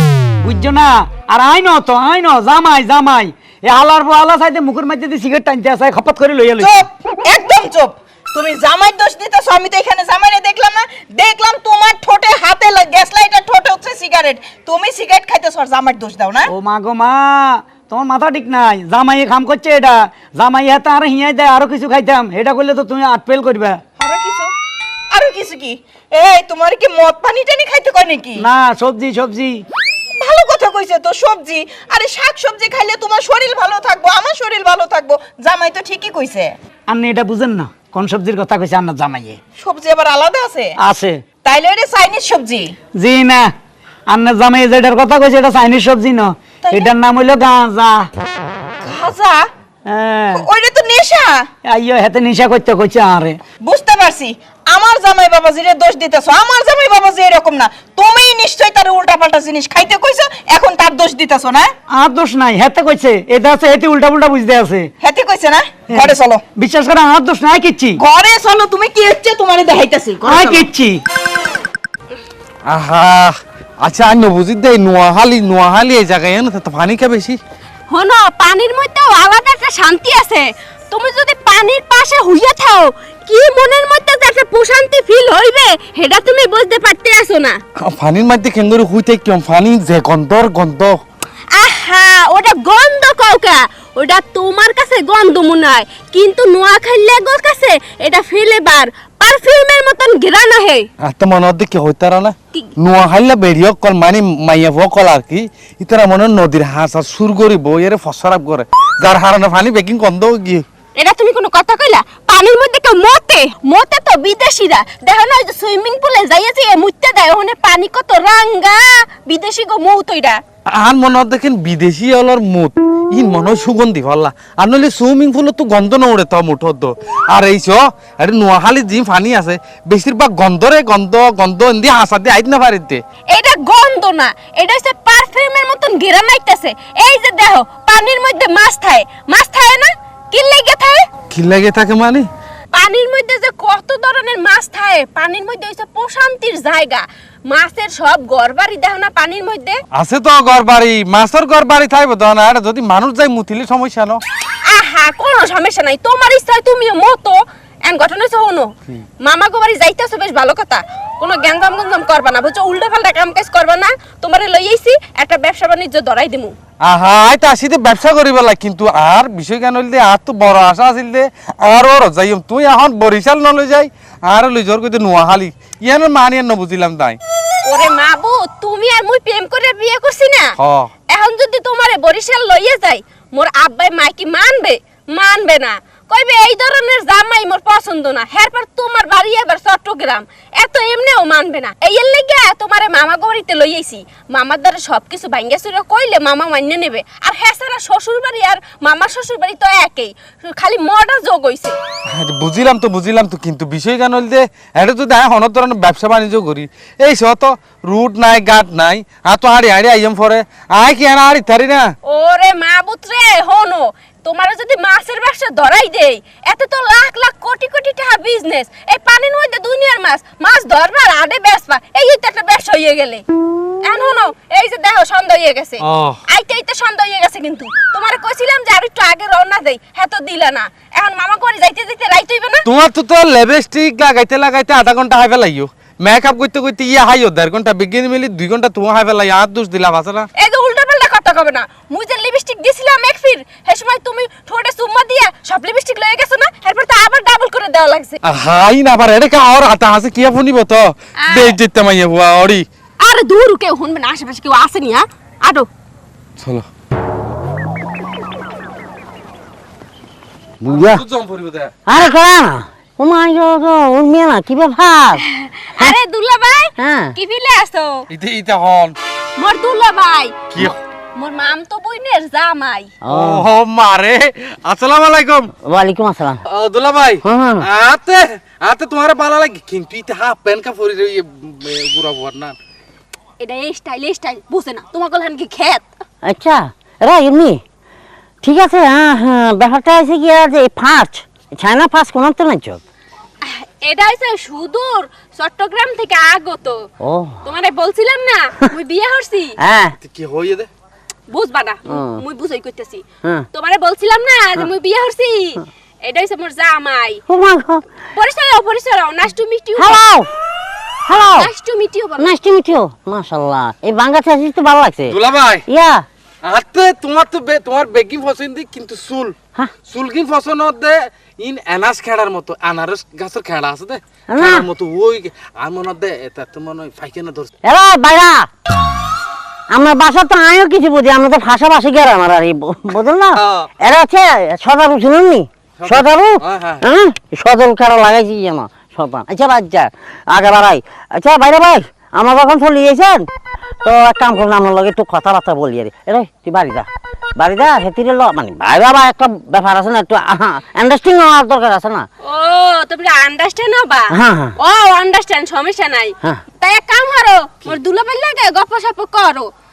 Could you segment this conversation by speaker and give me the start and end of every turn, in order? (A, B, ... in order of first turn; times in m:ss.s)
0:00.4-0:06.7 A
0:06.6-0:16.5 B
0:16.5-0:23.8 A
0:24.0-0:24.5 B
0:25.1-0:28.5 B
0:28.4-0:29.6 A
0:30.2-0:36.6 B
0:36.9-0:39.4 A
0:39.6-0:40.8 B
0:40.8-0:41.2 A
0:41.4-0:42.8 B
0:43.0-0:43.5 A
0:44.1-0:48.1 A
0:46.6-0:46.9 B
0:48.8-0:49.5 B
0:49.9-0:50.5 A
0:50.3-0:51.5 B
0:51.6-0:53.4 A
0:53.6-1:01.7 B
1:01.9-1:04.9 A
1:05.0-1:06.4 B
1:05.9-1:08.0 A
1:08.0-1:10.7 B
1:10.2-1:11.0 A
1:12.7-1:17.4 C
1:17.9-1:27.6 D
1:27.8-1:31.0 C
1:31.5-1:40.9 D
1:41.0-1:50.6 C
1:51.0-2:00.4 D
2:00.7-2:13.0 C
2:13.3-2:21.1 D
2:21.3-2:22.3 C
2:22.7-2:29.8 D
2:29.9-2:34.2 C
2:34.6-2:46.5 D
2:46.8-2:57.2 C
2:57.6-3:00.5 D
3:00.6-3:00.9 C
3:01.1-3:21.8 D
3:22.1-3:31.9 C
3:32.0-3:43.2 D
3:43.8-3:52.6 D
3:45.8-3:46.2 C
3:52.6-4:00.3 C
4:00.4-4:08.2 D
4:08.2-4:12.7 C
4:11.2-4:11.6 D
4:13.0-4:15.7 D
4:16.4-4:16.7 C
4:20.6-4:21.0 E
4:20.7-4:21.7 C
4:21.9-4:25.2 E
4:25.3-4:28.1 D
4:26.8-4:27.2 E
4:28.1-4:29.0 C
4:29.4-4:30.4 D
4:30.5-4:30.8 C
4:31.2-4:32.9 D
4:33.0-4:33.5 E
4:33.1-4:35.5 C
4:35.6-4:36.4 E
4:36.5-4:42.6 C
4:37.2-4:37.7 E
4:43.4-4:45.8 D
4:46.2-4:47.6 E
4:48.4-4:52.8 E
4:53.4-4:56.8 D
4:57.0-4:57.4 E
4:57.4-4:59.6 D
4:59.6-5:00.0 E
5:00.0-5:00.7 C
5:01.3-5:07.2 D
5:01.9-5:02.2 E
5:07.3-5:07.8 E
5:08.2-5:10.0 D
5:09.8-5:10.3 E
5:11.1-5:11.5 E
5:11.2-5:12.3 D
5:12.2-5:16.0 E
5:15.1-5:15.6 C
5:16.4-5:19.3 C
5:19.9-5:27.5 C
5:24.3-5:24.7 E
5:27.6-5:28.5 E
5:29.7-5:43.3 E
5:33.4-5:33.7 C
5:35.8-5:36.8 C
5:43.8-5:46.9 E
5:47.4-5:52.1 E
5:52.2-5:59.5 D
5:54.1-5:54.6 E